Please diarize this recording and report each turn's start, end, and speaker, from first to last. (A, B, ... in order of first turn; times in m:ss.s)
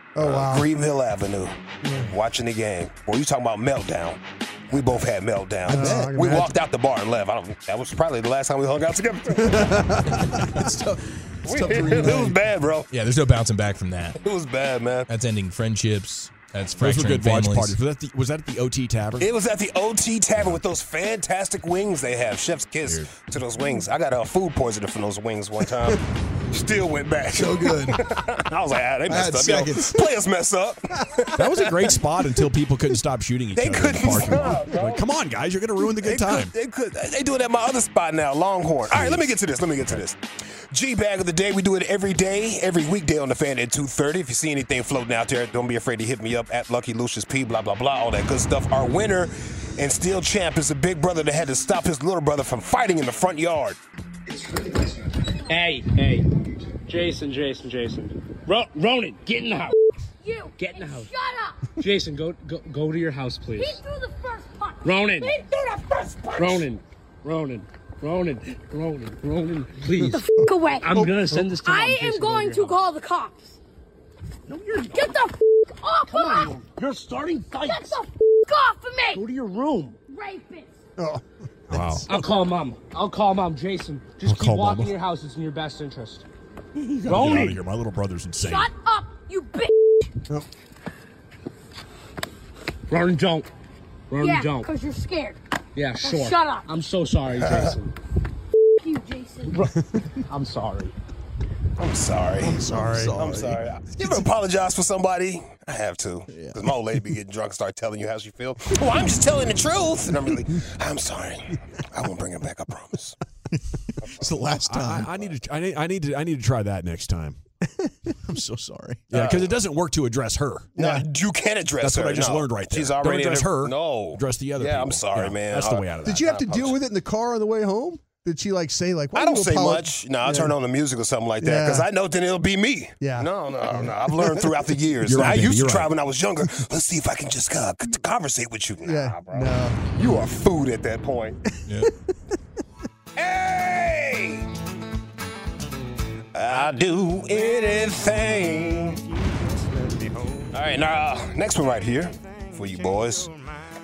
0:00.2-0:00.7 A
0:00.2-0:10.0 B
0:01.8-0:02.1 A
0:05.6-0:06.2 C
0:05.7-0:06.6 A
0:09.4-0:10.7 A
0:10.4-0:12.3 C
0:11.4-0:12.9 B
0:11.6-0:12.3 A
0:12.9-0:14.2 D
0:14.2-0:15.1 B
0:15.1-0:17.8 D
0:16.8-0:19.3 E
0:19.2-0:31.8 B
0:22.8-0:23.1 E
0:27.3-0:28.0 C
0:29.1-0:30.1 C
0:31.3-0:36.5 E
0:33.5-0:35.0 B
0:36.0-0:53.8 B
0:38.9-0:39.3 E
0:55.5-0:56.3 F
0:56.9-0:59.7 F
1:00.2-1:01.7 G
1:00.6-1:01.1 F
1:01.7-1:03.8 F
1:03.6-1:05.4 G
1:04.8-1:05.5 F
1:06.3-1:10.2 F
1:10.0-1:11.5 A
1:10.1-1:11.0 G
1:10.8-1:12.8 F
1:11.6-1:13.6 G
1:14.5-1:15.2 F
1:14.9-1:16.5 G
1:16.1-1:18.0 F
1:17.6-1:19.2 G
1:19.1-1:20.0 F
1:20.1-1:20.7 G
1:21.0-1:22.1 A
1:21.7-1:22.1 E
1:22.1-1:26.2 F
1:24.2-1:25.0 E
1:27.0-1:27.6 F
1:27.0-1:28.7 E
1:28.4-1:29.7 G
1:32.9-1:33.5 F
1:34.1-1:34.7 F
1:34.2-1:35.4 G
1:35.8-1:37.9 F
1:36.0-1:36.6 G
1:37.4-1:37.7 B
1:38.8-1:39.6 G
1:39.5-1:40.9 F
1:41.8-1:53.2 B
1:42.4-1:43.2 A
1:42.4-1:43.7 C
1:46.3-1:46.7 C
1:54.1-1:55.1 C
1:54.6-1:57.4 E
1:58.2-1:59.1 C
1:59.1-2:00.7 E
2:00.8-2:06.8 B
2:00.8-2:01.0 A
2:01.8-2:06.4 E
2:06.0-2:10.6 A
2:09.1-2:21.4 B
2:11.4-2:11.9 A
2:13.0-2:14.4 A
2:15.0-2:15.9 E
2:18.8-2:19.8 A
2:21.7-2:21.9 D
2:23.2-2:24.4 B
2:26.3-2:29.0 B
2:30.5-2:33.3 B